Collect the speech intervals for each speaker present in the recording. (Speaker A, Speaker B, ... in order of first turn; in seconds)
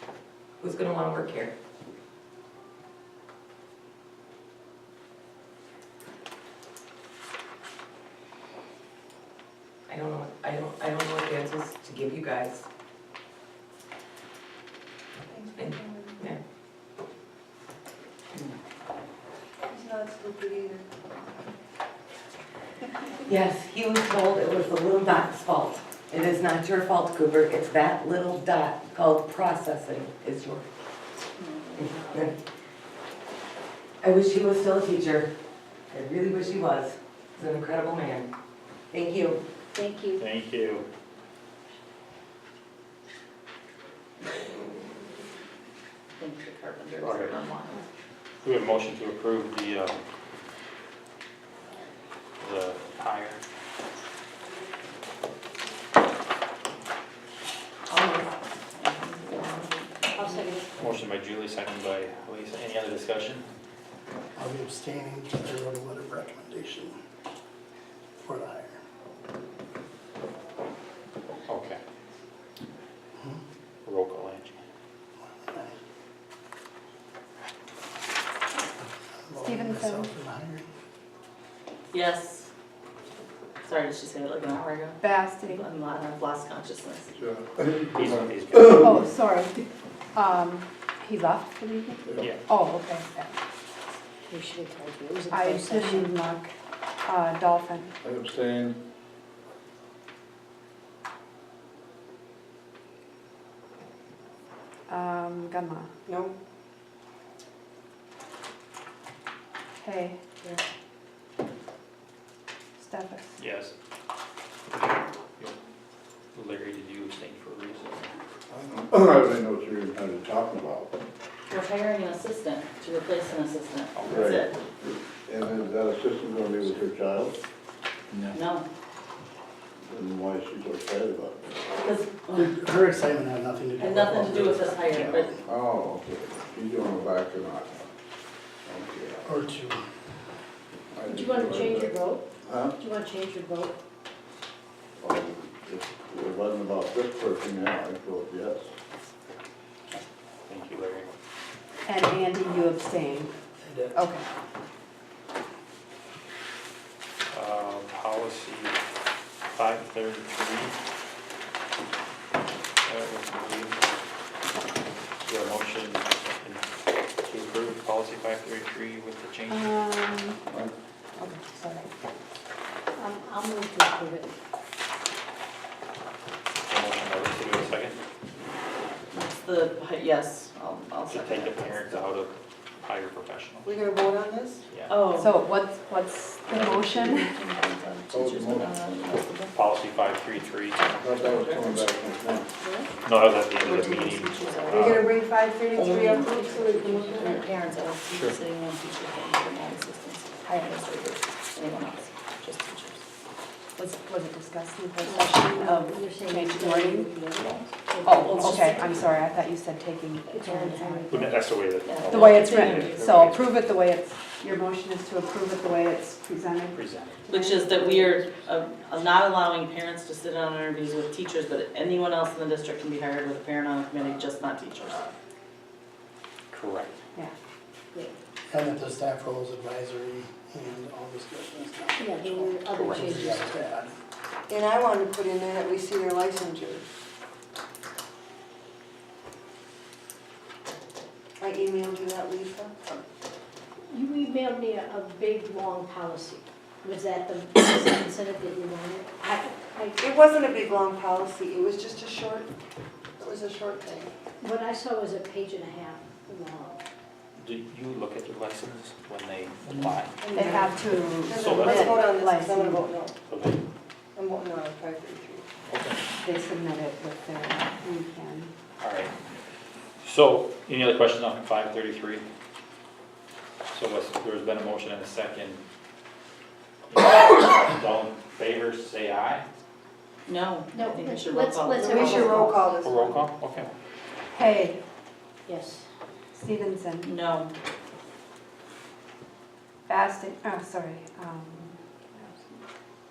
Speaker A: 0.6-1.5, 9.9-12.6, 15.6-16.4, 23.2-30.6, 31.8-32.4, 34.0-35.3, 35.9-38.3, 38.9-39.4
Speaker B: 15.3-16.2, 19.7-21.5, 106.1-106.4, 183.7-184.6, 194.8-197.5, 234.5-236.8, 241.4-243.0, 250.0-252.5, 253.2-254.1, 260.2-263.1, 264.1-265.4, 281.8-283.2
Speaker C: 31.4-32.2, 39.7-40.2, 60.1-60.7, 94.3-96.1, 141.1-142.2, 142.8-143.8, 172.9-174.3, 205.0-208.8, 210.3-211.2, 232.0-233.5, 243.9-250.0, 254.4-256.8, 280.7-282.9, 285.4-285.8
Speaker D: 40.2-40.8, 47.0-47.4, 48.4-50.0, 52.4-53.4, 60.8-63.4, 71.5-71.8, 73.8-74.6, 87.9-88.9, 113.4-113.7, 114.8-115.5, 116.3-118.1, 123.9-124.3, 128.1-128.4, 150.5-151.1, 157.3-158.7, 159.5-160.7, 162.8-163.7, 165.2-166.6, 167.2-169.9, 176.7-178.0, 181.1-183.7, 184.7-185.0, 189.5-190.9, 193.0-194.9, 198.1-198.3, 211.1-213.6, 216.7-217.3, 226.5-227.0, 232.7-233.3, 257.4-260.1, 261.3-262.0, 263.3-263.6, 265.7-266.0, 268.8-269.1, 270.0-272.2, 273.7-275.6, 276.9-279.4, 282.8-283.7
Speaker E: 46.2-47.8, 57.9-60.5, 81.9-82.5, 83.6-87.1, 121.5-124.5, 128.3-128.7, 131.8-132.5, 133.8-135.3, 179.1-182.0, 184.9-185.3, 186.5-189.5, 191.0-191.9, 193.6-195.2, 195.7-203.0, 208.3-209.0, 211.8-213.2, 217.3-225.1, 280.2-282.4, 287.0-287.5
Speaker F: 64.4-67.0, 68.2-68.8, 75.3-75.8, 79.3-80.7, 132.3-135.2, 139.2-139.8, 153.6-154.0, 228.5-233.9
Speaker G: 79.4-80.1, 85.0-85.7, 88.7-93.4, 95.3-96.5, 97.0-97.9, 104.9-105.9, 109.8-110.2, 112.8-113.4, 151.8-153.3, 153.9-154.2, 169.5-170.4, 171.2-171.9, 185.1-187.3, 200.4-200.8, 203.8-207.2, 208.0-211.4, 212.0-218.3, 260.3-262.9, 266.2-268.5, 284.3-284.8, 286.3-287.1, 289.9-292.6
Speaker H: 87.1-89.0, 92.1-92.3, 98.0-98.8, 118.5-120.9, 124.0-127.4, 129.9-131.6, 134.9-137.8, 138.7-139.3, 140.9-142.8, 145.0-148.7, 188.1-188.8, 190.9-192.5, 194.7-195.1